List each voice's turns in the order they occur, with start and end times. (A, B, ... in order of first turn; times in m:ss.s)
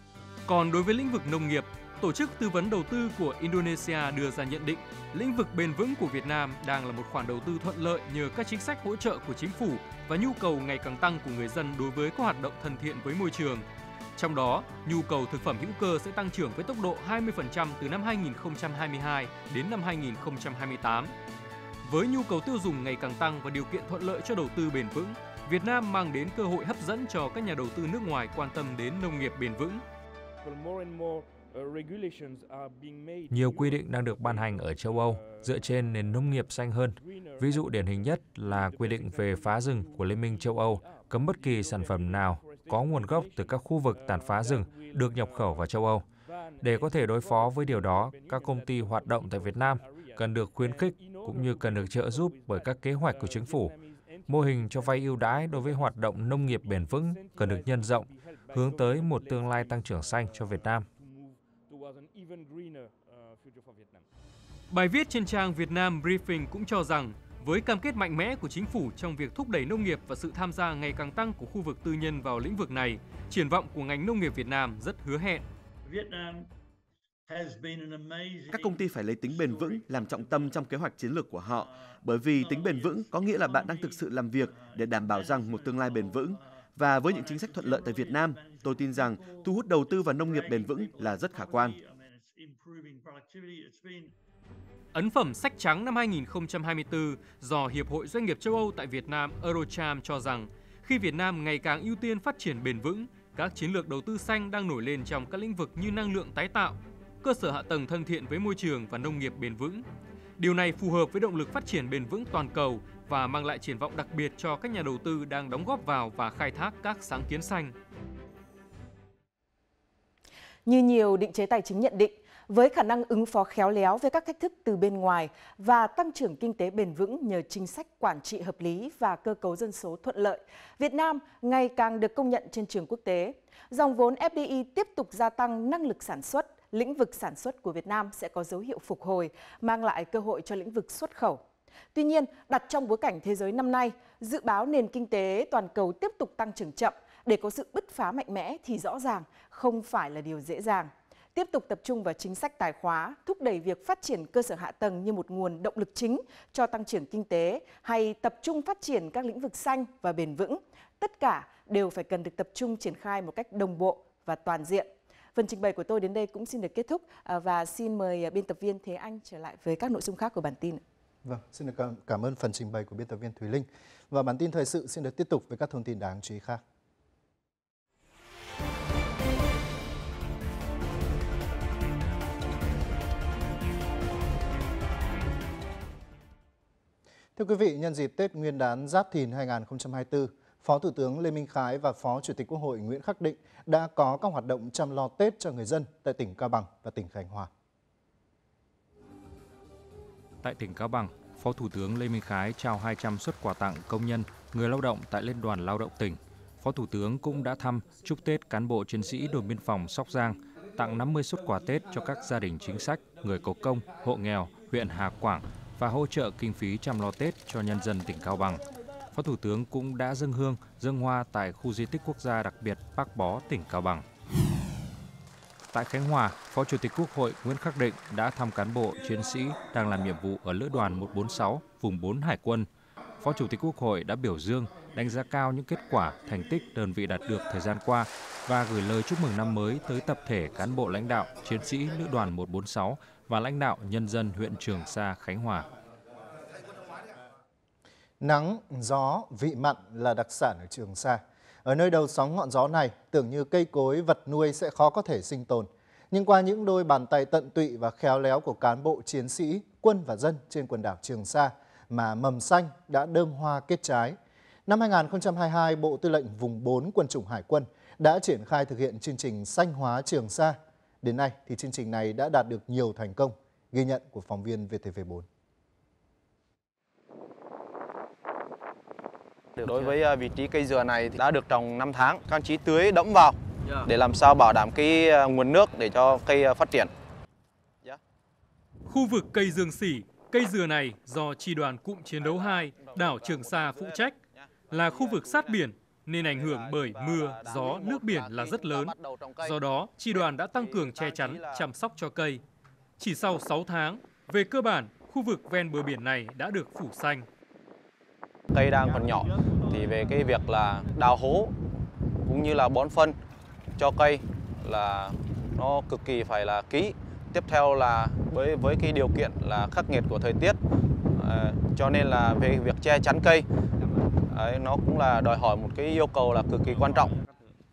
0:00.5-0:21.1 A
0:21.8-0:29.8 A
0:33.3-0:46.0 B
0:46.6-0:53.8 B
0:54.3-1:00.9 B
1:04.7-1:15.4 A
1:18.5-1:31.8 C
1:34.9-1:49.8 A
1:50.4-1:57.7 A
2:00.7-2:21.4 D
2:21.9-2:50.8 D
2:51.2-2:56.6 E
3:07.4-3:17.5 E
3:20.4-3:38.6 B
3:39.1-3:44.0 B
3:45.7-3:52.7 B
3:53.2-4:05.7 B
4:08.2-4:35.3 E
4:39.6-4:46.9 F
4:48.9-4:54.2 A
4:52.2-4:54.1 F
4:54.7-5:02.4 A
4:54.8-4:55.5 F
4:56.2-5:01.7 F
5:03.0-5:07.3 A
5:08.5-5:11.5 F
5:12.3-5:13.2 F
5:13.8-5:20.6 F
5:21.1-5:23.4 F
5:24.3-5:27.1 F